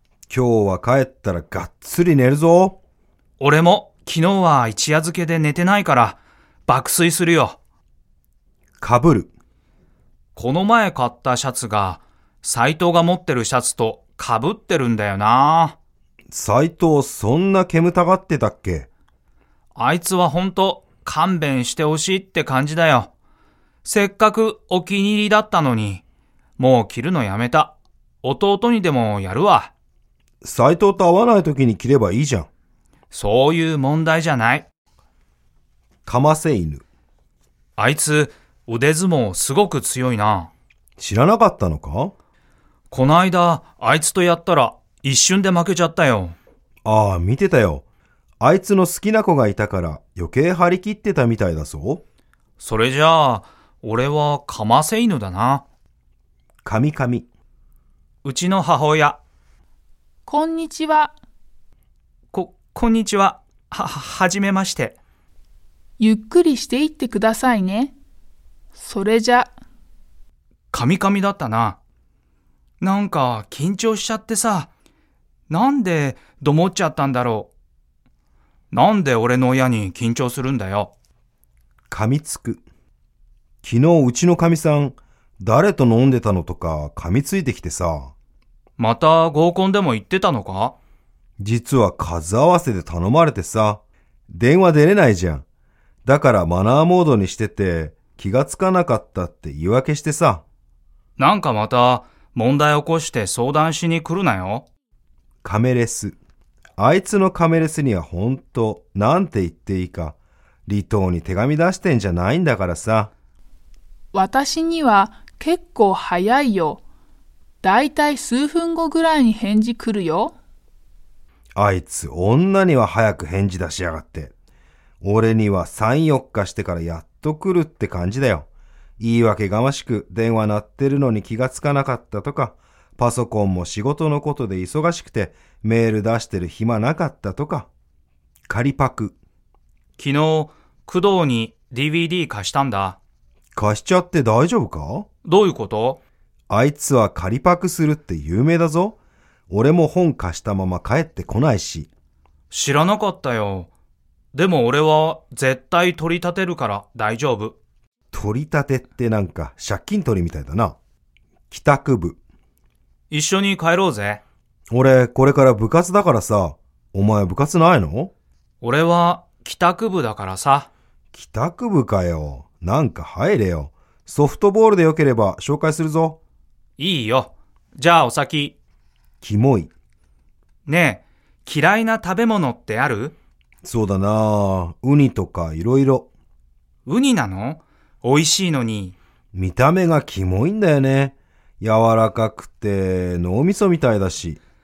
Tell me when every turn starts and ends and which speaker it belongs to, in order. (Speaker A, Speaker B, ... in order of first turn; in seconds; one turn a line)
Speaker A: 0.3-2.8
Speaker B: 3.4-7.6
Speaker A: 8.8-9.3
Speaker B: 10.4-15.8
Speaker A: 16.3-18.9
Speaker B: 19.8-23.1
Speaker B: 23.8-26.0
Speaker B: 26.6-29.7
Speaker A: 30.4-32.5
Speaker B: 33.1-34.7
Speaker A: 36.1-36.8
Speaker B: 37.8-40.5
Speaker A: 41.0-42.1
Speaker B: 42.9-46.4
Speaker A: 46.9-47.8
Speaker A: 48.4-52.0
Speaker B: 52.6-55.6
Speaker A: 56.6-57.3
Speaker B: 58.2-59.2
Speaker C: 60.3-61.1
Speaker B: 62.3-65.0
Speaker C: 66.0-68.0
Speaker C: 68.8-69.5
Speaker B: 70.7-71.8
Speaker B: 72.8-74.7
Speaker B: 75.5-77.5
Speaker B: 78.7-80.9
Speaker A: 81.9-82.7
Speaker A: 83.6-88.1
Speaker B: 88.8-90.8
Speaker A: 91.4-95.5
Speaker A: 96.1-100.4
Speaker B: 101.2-104.7
Speaker A: 105.4-106.2
Speaker A: 106.8-110.2
Speaker A: 110.7-113.1
Speaker C: 114.1-116.8
Speaker C: 117.6-120.3
Speaker A: 121.6-124.3
Speaker A: 125.0-128.5
Speaker A: 129.0-137.7
Speaker A: 138.5-139.2
Speaker B: 140.0-143.0
Speaker A: 143.6-145.1
Speaker B: 145.2-146.0
Speaker A: 146.5-149.0
Speaker A: 149.5-151.9
Speaker B: 152.5-153.7
Speaker B: 154.3-157.6
Speaker A: 158.1-160.8
Speaker A: 161.5-162.2
Speaker B: 163.1-164.2
Speaker A: 164.7-168.1
Speaker B: 168.6-170.7
Speaker A: 171.1-176.2
Speaker B: 176.8-178.6
Speaker A: 179.2-179.7
Speaker B: 180.7-183.2
Speaker A: 183.6-186.1
Speaker B: 186.9-189.0
Speaker A: 189.3-194.4